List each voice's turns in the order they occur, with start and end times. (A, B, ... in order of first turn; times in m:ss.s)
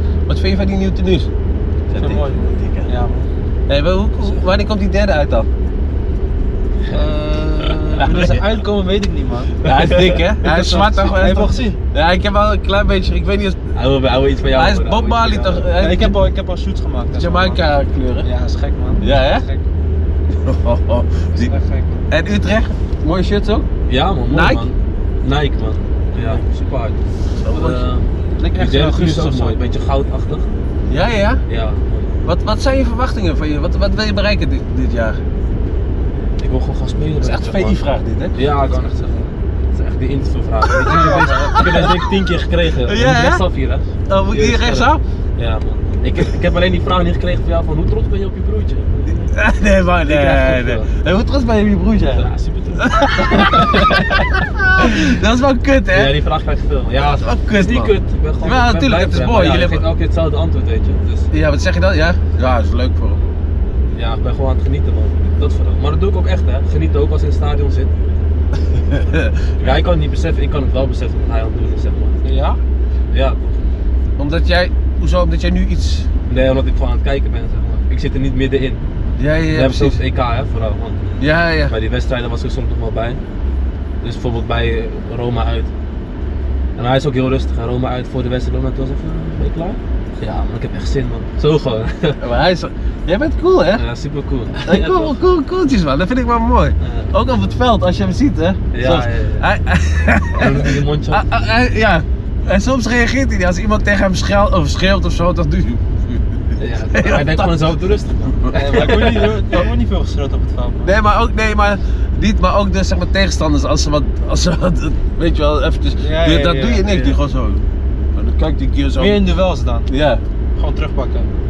0:00.3-0:01.3 A
0:01.9-0:02.9 A
0:02.0-0:03.3 B
0:03.7-0:05.5 A
0:06.8-0:07.1 C
0:06.9-0:09.6 B
0:07.6-0:08.3 C
0:09.6-0:13.6 A
0:09.6-0:10.2 C
0:10.4-0:11.8 B
0:13.8-0:15.7 C
0:14.5-0:16.2 A
0:15.8-0:17.6 B
0:17.2-0:18.3 A
0:18.2-0:19.6 B
0:19.0-0:19.4 A
0:20.3-0:21.5 A
0:21.4-0:22.0 B
0:22.1-0:23.7 A
0:23.9-0:27.0 C
0:24.3-0:24.7 A
0:27.4-0:27.8 A
0:27.5-0:30.5 C
0:28.4-0:29.6 B
0:30.9-0:31.4 A
0:31.5-0:32.2 C
0:32.2-0:35.2 A
0:36.4-0:37.8 C
0:37.2-0:38.4 A
0:38.4-0:49.3 C
0:38.7-0:39.2 B
0:40.7-0:42.1 A
0:40.8-0:41.8 B
0:42.8-0:43.4 A
0:44.1-0:45.0 A
0:49.3-0:56.1 A
0:50.0-0:50.9 C
0:52.1-0:55.2 C
0:55.9-1:01.3 C
0:57.0-0:59.9 A
1:01.3-1:03.2 A
1:03.9-1:07.9 C
1:08.7-1:09.4 A
1:09.6-1:12.2 C
1:12.2-1:12.6 B
1:13.1-1:13.6 C
1:14.2-1:16.1 A
1:16.3-1:18.8 C
1:19.2-1:20.0 A
1:19.5-1:23.2 C
1:21.2-1:21.7 A
1:24.0-1:25.7 C
1:26.8-1:32.2 C
1:32.2-1:33.8 A
1:33.7-1:35.2 C
1:34.6-1:47.6 A
1:36.8-1:37.2 C
1:38.7-1:39.5 C
1:40.4-1:41.2 C
1:46.6-1:49.2 C
1:48.4-1:49.7 A
1:48.5-1:50.9 B
1:50.8-1:57.6 A
1:56.0-1:57.2 B
1:58.2-1:59.2 A
1:59.0-1:59.9 B
1:59.9-2:00.2 A
2:00.6-2:01.3 B